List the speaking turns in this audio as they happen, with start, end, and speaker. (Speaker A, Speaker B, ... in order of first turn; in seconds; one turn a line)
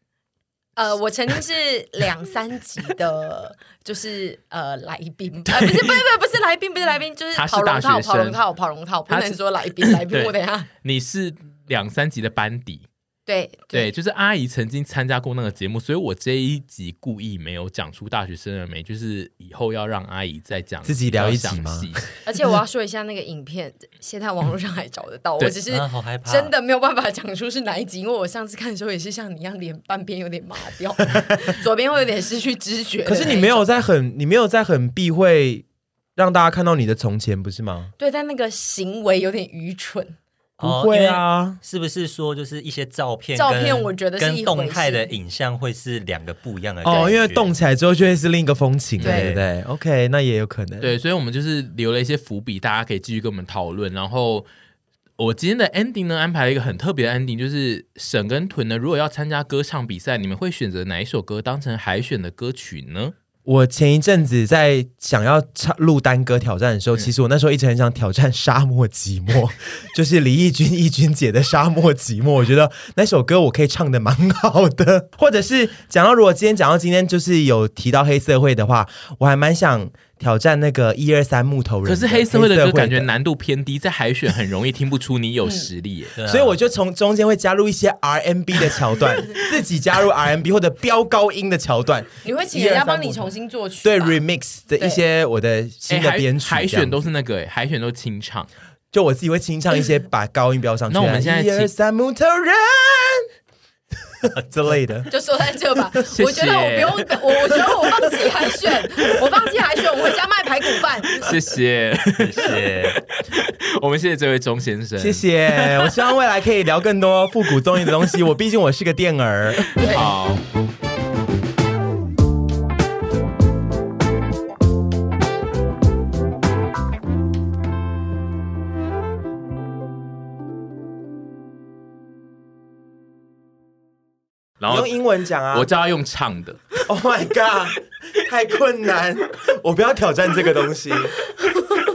Speaker A: 0.8-10.7
Speaker B: 5.5-6.0
Speaker B: 7.3-8.4
Speaker B: 9.1-12.9
Speaker A: 13.3-13.9
Speaker B: 13.7-22.0
Speaker C: 20.9-22.0
Speaker A: 22.3-33.6
Speaker D: 25.7-26.5
Speaker C: 33.0-35.6
Speaker C: 36.2-37.9
Speaker A: 38.0-40.2
Speaker C: 40.6-41.6
Speaker D: 40.6-47.5
Speaker A: 43.4-45.1
Speaker C: 46.8-50.9
Speaker A: 46.9-47.2
Speaker D: 49.0-49.4
Speaker A: 49.0-49.3
Speaker B: 50.8-54.5
Speaker B: 55.2-63.1
Speaker C: 63.5-83.1
Speaker B: 81.8-86.2
Speaker A: 85.4-85.7
Speaker D: 86.2-86.6
Speaker C: 86.2-93.3
Speaker A: 92.2-94.2
Speaker C: 93.8-97.1
Speaker B: 95.9-98.5
Speaker C: 98.9-103.2
Speaker B: 100.9-101.7
Speaker C: 104.2-105.1
Speaker A: 105.1-111.3
Speaker B: 106.1-107.5
Speaker B: 111.2-116.0
Speaker D: 112.2-113.0
Speaker C: 115.0-119.9
Speaker A: 119.8-120.1
Speaker B: 119.8-120.4
Speaker B: 134.6-134.9
Speaker C: 134.7-135.7
Speaker B: 135.5-136.6
Speaker C: 136.8-141.2